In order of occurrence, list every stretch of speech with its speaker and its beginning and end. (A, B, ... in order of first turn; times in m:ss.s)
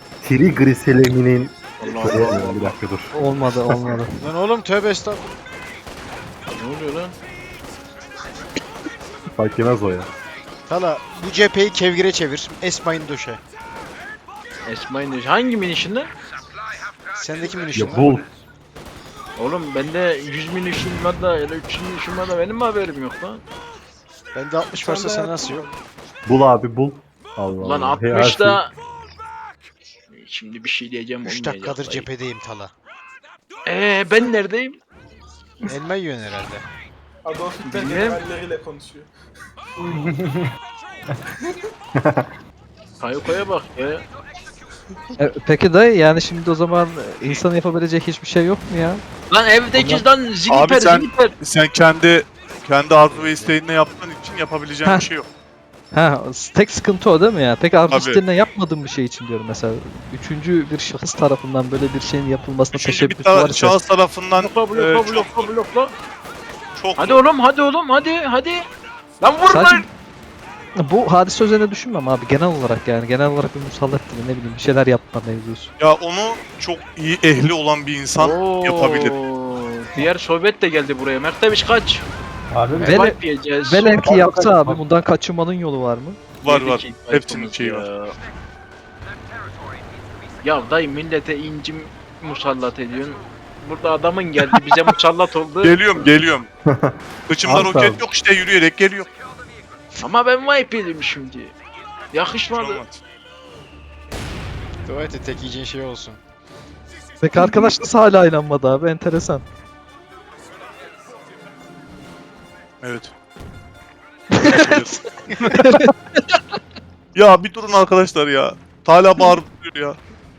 0:00.2-0:03.9 A
0:01.8-0:02.7 B
0:03.1-0:04.2 C
0:04.2-0:05.3 D
0:06.5-0:07.2 B
0:09.4-0:10.1 A
0:10.7-0:13.4 D
0:14.7-0:16.1 B
0:17.1-0:18.2 D
0:17.7-0:18.3 A
0:19.4-0:23.4 B
0:24.3-0:25.6 D
0:24.6-0:25.8 E
0:26.2-0:28.6 A
0:27.6-0:28.7 B
0:30.1-0:32.1 B
0:31.2-0:32.7 D
0:33.6-0:34.8 B
0:35.7-0:36.7 D
0:37.2-0:39.1 E
0:37.6-0:38.2 B
0:39.8-0:40.5 F
0:42.0-0:42.2 A
0:43.0-0:44.0 B
0:45.2-0:49.0 C
0:49.3-0:51.3 B
0:49.7-0:50.0 C
0:50.5-0:55.3 G
0:53.0-0:53.6 D
0:55.9-1:03.8 C
0:57.9-0:58.2 G
1:02.7-1:05.5 G
1:04.4-1:06.0 B
1:06.8-1:07.2 G
1:07.0-1:08.7 B
1:09.2-1:09.8 B
1:09.5-1:09.8 C
1:10.8-1:15.7 C
1:15.8-1:19.2 G
1:18.2-1:22.0 B
1:22.5-1:23.0 F
1:22.8-1:23.9 B
1:22.8-1:26.2 C
1:24.0-1:24.8 F
1:26.4-1:27.8 G
1:26.4-1:28.1 B
1:30.4-1:35.8 B
1:35.6-1:36.5 G
1:36.6-1:38.0 A
1:37.3-1:39.1 G
1:40.0-1:41.6 B
1:42.1-1:42.8 B
1:42.5-1:43.0 G
1:44.8-1:46.2 D
1:47.2-1:49.4 C
1:52.8-1:53.1 G
1:54.3-1:55.0 C
1:54.4-1:55.8 G
1:55.5-1:56.3 C
1:57.1-2:00.0 G